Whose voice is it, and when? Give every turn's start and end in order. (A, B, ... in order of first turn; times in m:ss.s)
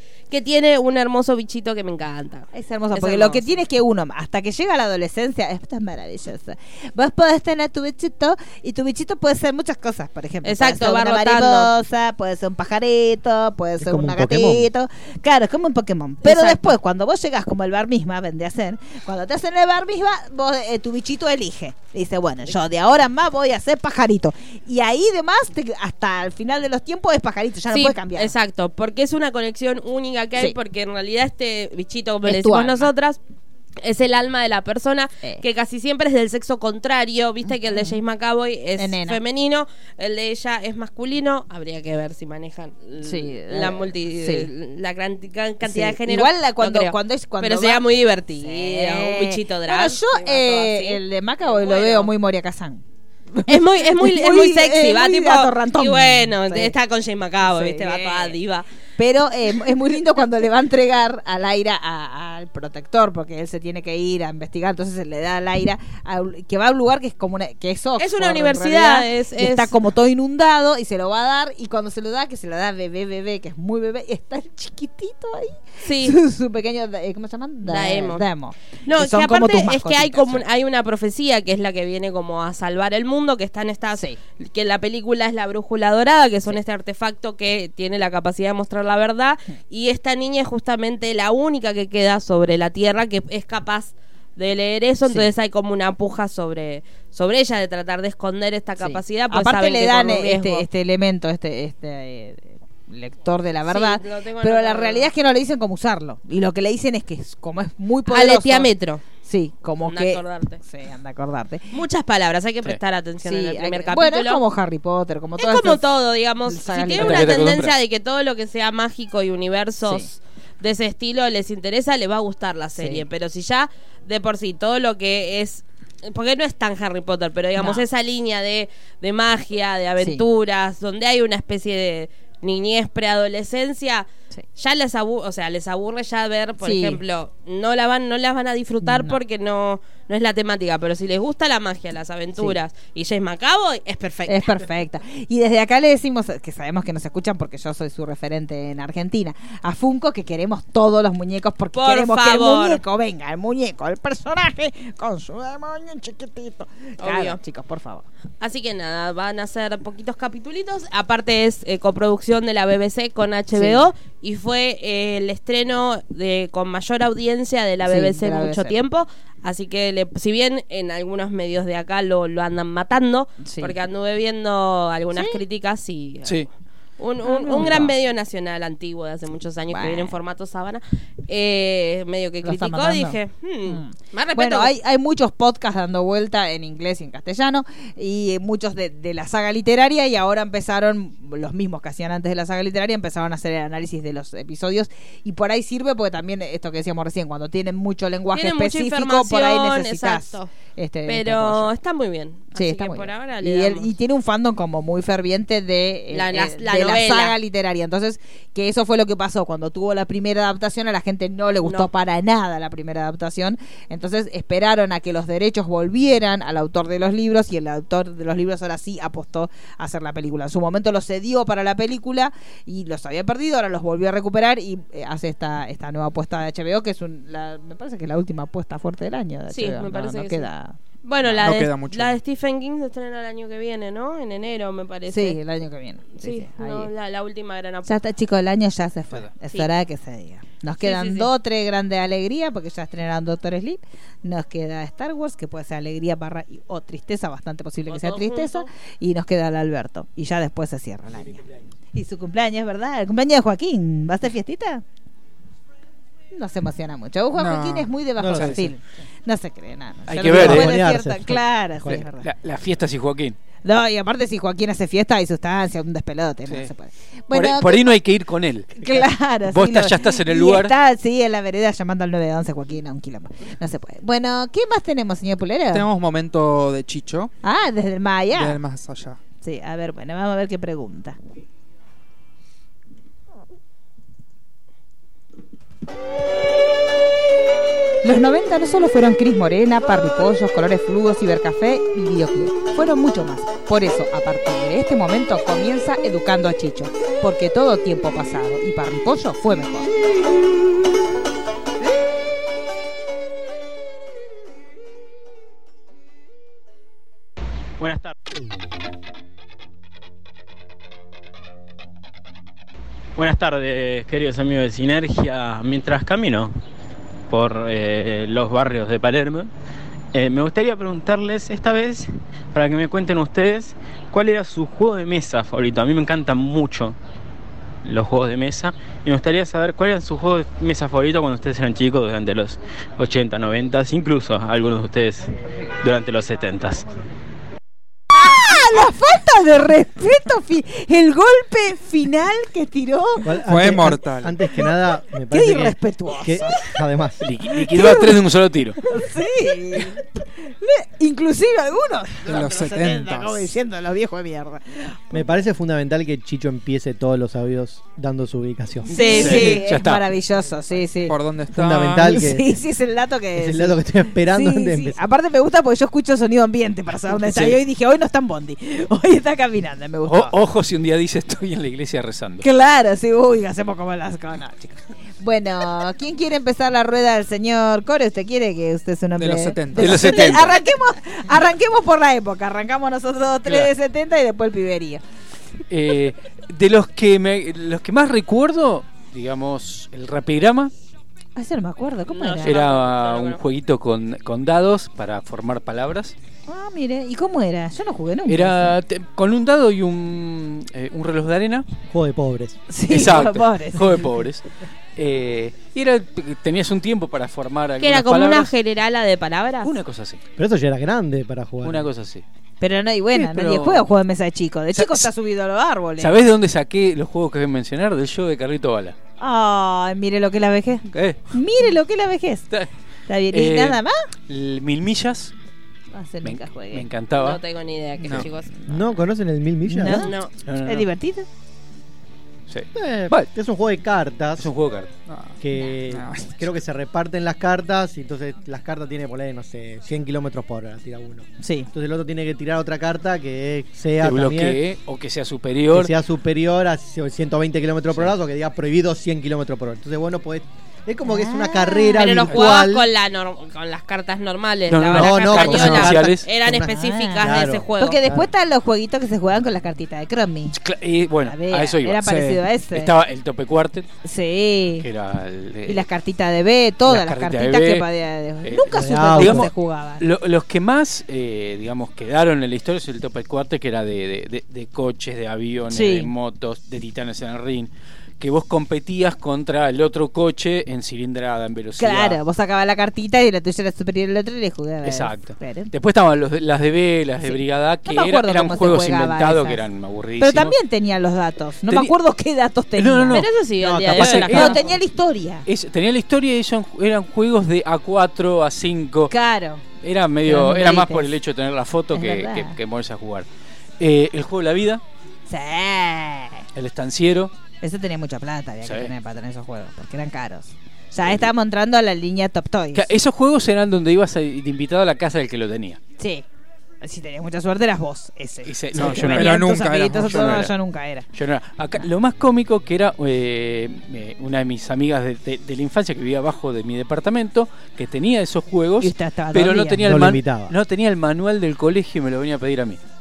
0:00.3-0:03.6 A
0:02.5-0:28.3 B
0:10.4-0:11.7 A
0:13.8-0:14.7 C
0:16.2-0:16.8 A
0:27.7-0:33.2 A
0:32.3-0:32.9 B
0:33.8-0:52.1 A
0:37.5-0:38.0 B
0:38.8-0:39.2 B
0:43.0-0:44.5 B
0:45.6-0:52.8 B
0:53.3-0:56.7 B
0:53.5-0:58.7 A
0:57.4-0:58.4 B
0:59.0-1:20.4 B
1:08.0-1:09.7 A
1:15.8-1:16.2 A
1:17.6-1:18.3 A
1:18.9-1:40.7 A
1:38.8-1:48.7 B
1:43.7-1:45.1 A
1:48.1-1:49.0 A
1:49.2-1:51.7 B
1:49.8-1:50.6 A
1:51.7-1:54.4 A
1:53.2-1:55.8 B
1:55.4-2:24.7 A
1:56.4-1:57.4 B
1:57.0-1:57.7 D
1:59.8-2:00.1 B
2:02.8-2:03.0 B
2:07.6-2:07.8 B
2:16.6-2:17.0 B
2:18.8-2:19.2 B
2:24.3-2:38.0 B
2:31.7-2:32.8 A
2:37.0-2:37.4 A
2:38.4-2:56.4 A
2:43.5-2:43.8 B
2:47.8-2:48.7 B
2:53.4-2:53.7 B
2:55.1-2:55.4 B
2:57.0-3:04.7 A
2:57.2-2:57.9 B
2:59.7-3:00.2 B
3:02.4-3:21.7 B
3:18.3-3:20.5 A
3:21.1-3:23.9 A
3:22.6-3:50.8 B
3:26.1-3:27.4 A
3:31.6-3:31.9 A
3:49.5-3:50.5 A
3:51.0-3:55.4 A
3:51.3-3:52.2 E
3:55.1-3:56.9 B
3:56.2-3:58.0 A
3:57.8-4:14.8 B
4:00.8-4:01.3 A
4:07.9-4:08.7 A
4:16.3-4:22.3 B
4:17.3-4:18.6 E
4:18.2-4:18.7 C
4:20.1-4:20.8 D
4:20.2-4:22.0 C
4:21.9-4:23.4 D
4:23.6-4:28.0 B
4:27.3-4:30.7 D
4:28.8-4:35.9 B
4:35.7-4:37.3 E
4:37.4-4:38.6 B
4:38.3-4:39.2 E
4:39.4-4:41.2 B
4:48.0-4:59.9 B
5:07.8-5:08.1 F
5:13.2-5:16.6 F
5:17.3-5:19.5 F
5:20.1-5:27.0 F
5:27.8-5:35.3 F
5:35.8-5:36.9 F
5:38.1-5:43.3 B
5:43.2-5:47.3 C
5:43.4-5:44.3 E
5:45.3-5:46.7 B
5:47.2-5:48.8 D
5:47.6-5:48.2 B
5:48.8-5:55.2 B
5:52.2-5:53.4 E
5:55.1-5:59.0 C
5:58.9-6:01.2 B
5:58.9-5:59.6 A
5:59.0-6:00.1 D
6:01.1-6:02.1 E
6:01.5-6:02.5 C
6:02.0-6:10.3 B
6:03.4-6:05.0 C
6:07.1-6:07.6 D
6:10.0-6:12.4 D
6:12.4-6:25.0 B
6:19.2-6:20.4 E
6:19.7-6:20.6 D
6:25.7-6:30.7 D
6:31.4-6:32.6 B
6:32.1-6:33.4 A
6:32.4-6:36.2 D
6:36.5-6:38.7 B
6:38.3-6:41.7 D
6:41.9-6:42.6 C
6:42.7-6:44.1 B
6:42.9-6:48.5 D
6:47.8-6:49.7 A
6:49.6-6:50.2 D
6:50.4-6:51.9 C
6:51.6-6:52.2 D
6:52.6-6:56.2 B
6:53.2-6:53.9 D
6:54.7-6:55.1 D
6:56.0-6:59.0 D
6:59.2-7:02.5 B
7:00.9-7:01.2 D
7:03.1-7:04.0 B
7:03.3-7:05.3 D
7:05.9-7:06.9 B
7:06.2-7:07.4 D
7:07.2-7:08.5 A
7:08.7-7:10.1 C
7:09.7-7:10.1 B
7:09.9-7:10.3 A
7:10.4-7:10.9 D
7:10.6-7:11.3 B
7:12.5-7:13.3 D
7:12.7-7:14.5 C
7:14.4-7:14.9 D
7:15.1-7:15.4 E
7:15.4-7:24.6 C
7:15.9-7:16.4 E
7:21.4-7:21.7 B
7:24.0-7:25.9 D
7:25.7-7:32.9 C
7:31.0-7:32.1 B
7:31.9-7:38.0 A
7:32.3-7:32.6 D
7:34.7-7:36.2 D
7:34.9-7:38.3 C
7:36.7-7:40.6 B
7:40.5-7:43.9 D
7:41.2-7:42.9 B
7:44.0-7:44.9 B
7:44.8-7:45.9 D
7:45.7-7:50.0 B
7:46.8-7:47.9 D
7:48.4-8:02.2 D
7:48.7-7:49.5 C
7:55.7-7:56.1 B
8:01.8-8:05.7 B
8:04.8-8:10.6 D
8:07.2-8:09.6 B
8:10.2-8:13.2 B
8:11.7-8:11.9 D
8:12.7-8:13.3 D
8:13.1-8:14.6 A
8:13.6-8:14.3 C
8:13.9-8:14.7 D
8:14.0-8:15.5 B
8:15.4-8:19.1 D
8:19.1-8:19.6 B
8:19.8-8:23.3 D
8:20.2-8:21.1 B
8:21.9-8:22.6 B
8:23.8-8:24.8 D
8:25.3-8:26.4 B
8:26.6-8:27.3 D
8:27.6-8:32.9 B
8:28.6-8:28.9 D
8:31.0-8:31.3 D
8:32.7-8:35.8 D
8:36.0-8:36.2 B
8:36.8-8:41.1 B
8:38.4-8:40.5 D
8:38.8-8:40.4 E
8:41.1-8:52.8 D
8:48.8-8:49.8 B
8:49.8-8:50.5 C